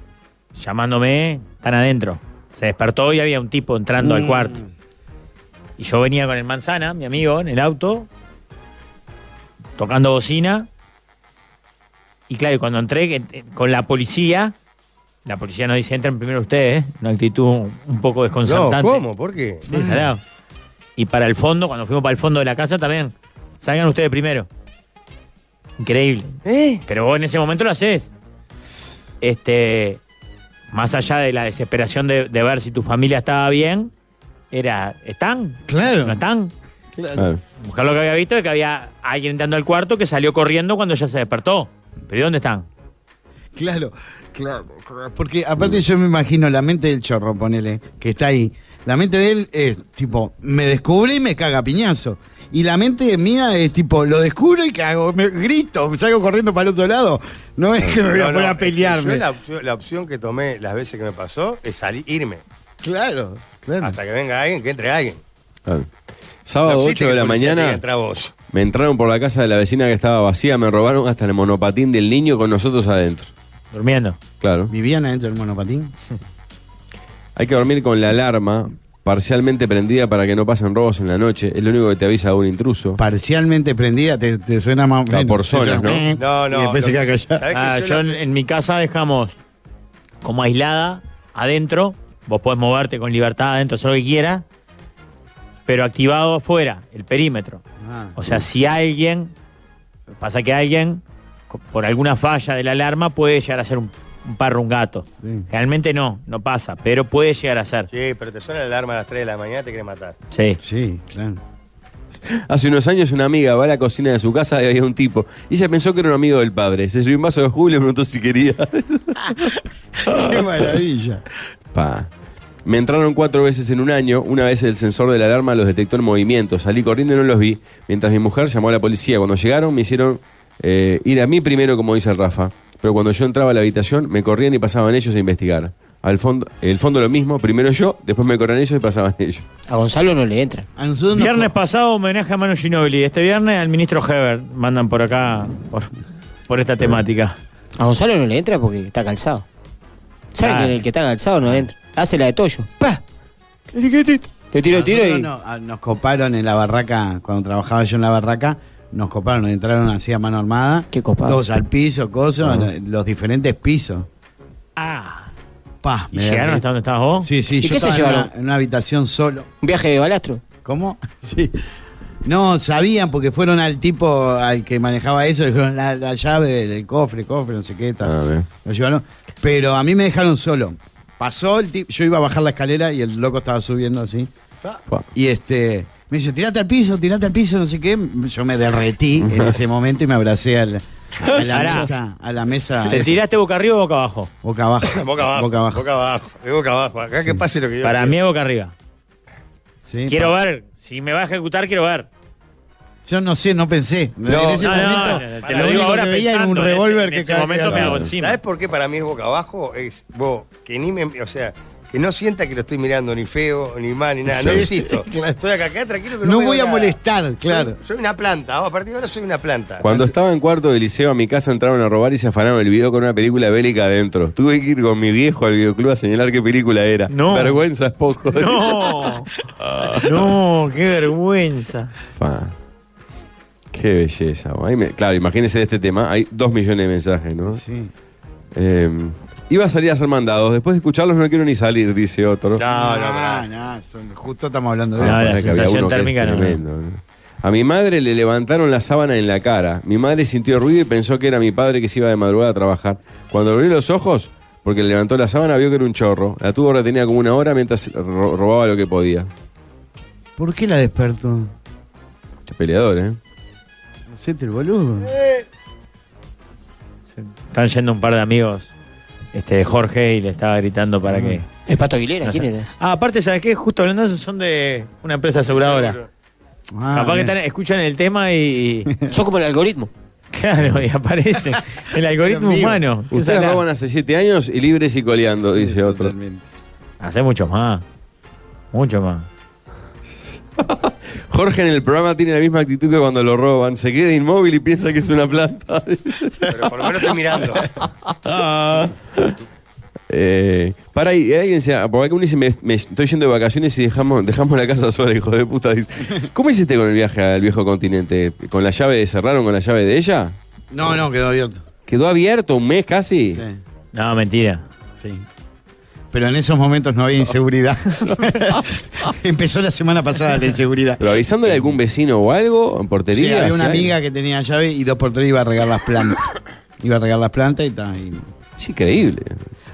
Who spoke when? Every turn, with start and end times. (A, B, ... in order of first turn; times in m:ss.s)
0:00.5-0:04.6 A
0:04.0-0:04.7 B
0:05.8-0:08.1 A
0:09.8-0:10.7 A
0:12.3-0:14.5 A
0:15.2-0:19.0 A
0:18.4-0:19.9 C
0:19.6-0:20.2 A
0:19.7-0:20.1 B
0:21.0-0:24.5 A
0:25.8-0:26.4 A
0:26.4-0:26.8 C
0:26.9-0:28.1 A
0:29.2-0:30.0 A
0:30.7-0:33.9 A
0:34.5-0:36.5 A
0:35.7-0:36.2 B
0:36.9-0:37.3 B
0:37.2-0:37.4 D
0:37.6-0:42.7 A
0:43.5-0:59.2 B
0:58.0-1:02.4 C
1:02.8-1:04.0 B
1:03.8-1:05.2 C
1:06.4-1:07.8 D
1:06.6-1:08.3 C
1:08.5-1:13.3 D
1:13.7-1:14.2 A
1:14.4-1:14.7 D
1:14.7-1:15.9 B
1:17.4-1:23.0 D
1:23.0-1:27.4 B
1:25.1-1:26.1 D
1:26.1-1:28.2 C
1:27.5-1:29.4 A
1:30.2-1:34.4 A
1:35.7-1:37.6 A
1:37.8-1:38.2 B
1:38.2-1:39.3 A
1:40.2-1:47.9 A
1:45.2-1:45.5 B
1:47.9-1:50.2 C
1:50.3-1:50.6 A
1:50.6-1:51.4 B
1:52.4-1:59.3 D
1:59.2-2:01.2 B
2:00.1-2:00.3 D
2:01.7-2:02.1 D
2:02.6-2:19.4 D
2:19.7-2:20.7 E
2:20.8-2:21.5 B
2:21.1-2:25.9 A
2:26.5-2:27.4 A
2:27.8-2:29.4 E
2:30.3-2:33.0 E
2:30.4-2:30.8 A
2:33.7-2:35.3 E
2:34.7-2:44.1 B
2:40.9-2:41.4 E
2:44.8-2:45.3 A
2:45.8-2:46.6 B
2:46.1-2:47.3 A
2:47.2-2:49.5 B
2:47.6-2:48.3 E
2:49.6-2:50.4 E
2:50.6-2:51.5 B
2:52.2-3:04.3 B
2:58.0-2:58.5 D
3:05.1-3:13.2 B
3:11.5-3:11.9 A
3:12.9-3:14.3 A
3:14.4-3:15.8 B
3:14.9-3:18.1 C
3:17.8-3:18.7 A
3:19.8-3:20.3 B
3:20.1-3:22.1 A
3:23.0-3:28.0 B
3:24.3-3:26.0 C
3:24.6-3:28.4 A
3:27.7-3:28.1 D
3:28.1-3:40.1 C
3:34.3-3:35.3 B
3:34.4-3:34.7 D
3:36.2-3:37.8 B
3:39.8-3:49.1 D
3:47.1-3:47.6 A
3:48.3-3:49.3 A
3:49.6-3:50.1 D
3:49.9-3:51.9 A
3:52.1-3:52.5 D
3:53.7-3:57.6 D
3:57.5-3:57.9 B
3:58.5-4:02.6 D
4:02.6-4:03.4 C
4:02.6-4:05.6 B
4:05.0-4:19.3 D
4:05.0-4:06.6 A
4:20.4-4:21.5 B
4:22.5-4:23.2 D
4:24.1-4:25.1 B
4:27.2-4:28.7 A
4:29.3-4:31.5 A
4:31.0-4:31.4 B
4:31.6-4:32.7 E
4:32.2-4:36.0 A
4:35.5-4:36.1 C
4:36.7-4:37.3 B
4:36.9-4:38.9 A
4:38.9-4:39.1 B
4:39.1-4:39.9 E
4:40.3-4:43.6 A
4:42.2-4:42.8 B
4:43.1-4:46.1 D
4:45.6-4:46.4 B
4:47.0-4:47.8 A
4:48.7-4:49.3 A
4:50.6-4:56.5 D
4:56.5-4:57.7 C
4:58.1-4:59.3 D
5:00.1-5:10.4 D
5:10.7-5:11.6 B
5:11.9-5:13.4 D
5:13.3-5:13.6 B
5:13.9-5:14.6 A
5:15.0-5:15.2 B
5:16.1-5:21.8 B
5:21.0-5:23.9 D
5:23.1-5:26.3 B
5:26.8-5:28.3 B
5:28.6-5:29.4 D